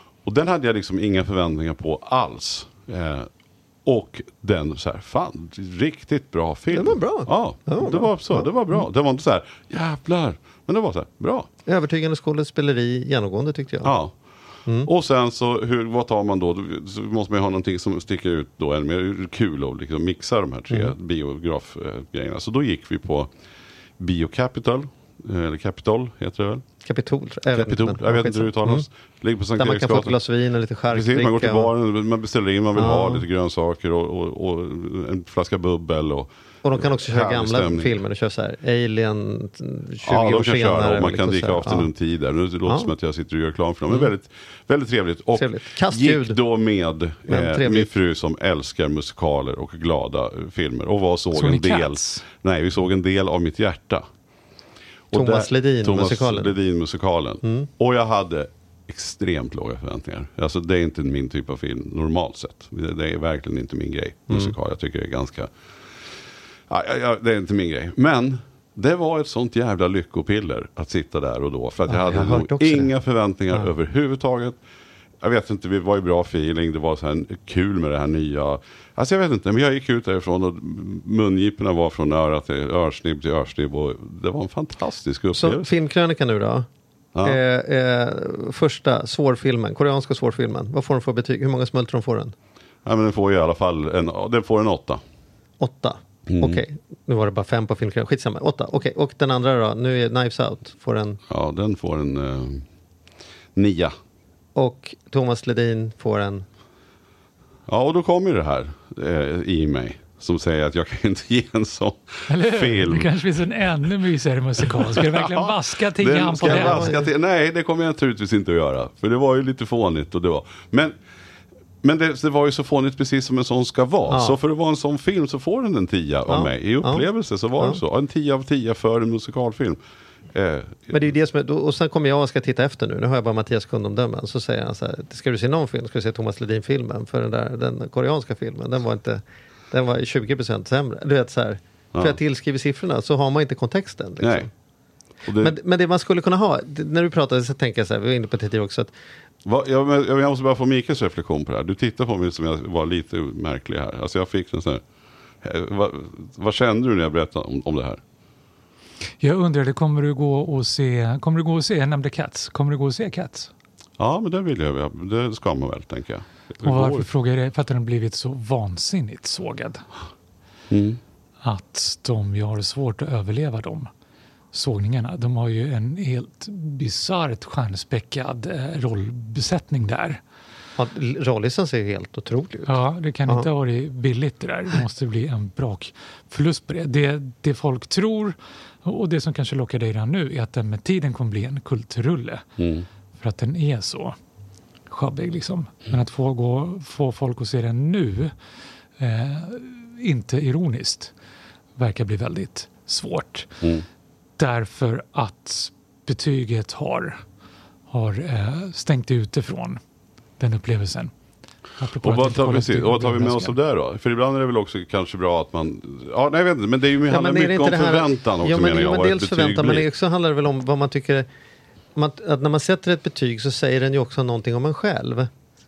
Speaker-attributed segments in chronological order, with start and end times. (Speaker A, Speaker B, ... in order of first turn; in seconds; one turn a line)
Speaker A: 0.2-3.3
Speaker A: 3.8-11.5
Speaker B: 6.7-8.5
Speaker B: 11.7-13.9
Speaker A: 13.8-14.1
Speaker A: 14.8-23.3
Speaker A: 24.0-26.6
Speaker B: 26.8-28.9
Speaker A: 27.5-30.1
Speaker B: 29.6-31.7
Speaker A: 30.9-38.0
Speaker B: 32.8-33.2
Speaker B: 36.6-41.9
Speaker A: 40.0-54.0
Speaker B: 45.4-46.4
Speaker B: 47.3-47.9
Speaker C: 51.4-52.2
Speaker A: 55.1-65.5
Speaker B: 55.1-56.5
Speaker B: 57.4-57.7
Speaker A: 66.7-74.6
Speaker B: 71.9-72.9
Speaker A: 75.2-85.7
Speaker B: 85.3-86.7
Speaker A: 87.1-87.4
Speaker B: 87.2-92.3
Speaker A: 92.8-95.0
Speaker B: 95.6-101.2
Speaker A: 96.3-96.6
Speaker A: 101.3-102.7
Speaker A: 103.5-103.9
Speaker B: 104.5-106.5
Speaker A: 107.7-113.1
Speaker C: 112.3-117.0
Speaker A: 114.7-121.0
Speaker B: 116.4-117.1
Speaker A: 121.8-129.8
Speaker B: 124.1-124.4
Speaker B: 126.3-127.0
Speaker A: 130.3-131.0
Speaker B: 130.9-144.5
Speaker A: 144.2-144.5
Speaker A: 145.2-145.5
Speaker B: 145.4-148.9
Speaker A: 149.4-154.8
Speaker A: 155.4-158.0
Speaker C: 159.2-163.5
Speaker A: 164.0-167.1
Speaker C: 166.6-169.8
Speaker A: 170.7-171.0
Speaker C: 171.4-173.9
Speaker C: 174.5-180.2
Speaker B: 180.8-183.5
Speaker C: 182.7-192.4
Speaker A: 192.6-192.9
Speaker C: 193.2-194.2
Speaker C: 194.9-198.3
Speaker C: 199.0-201.1
Speaker C: 201.8-203.5
Speaker C: 204.4-207.2
Speaker C: 207.9-209.8
Speaker C: 210.4-211.1
Speaker C: 211.8-213.5
Speaker A: 212.0-219.9
Speaker B: 217.1-221.3
Speaker B: 221.9-225.3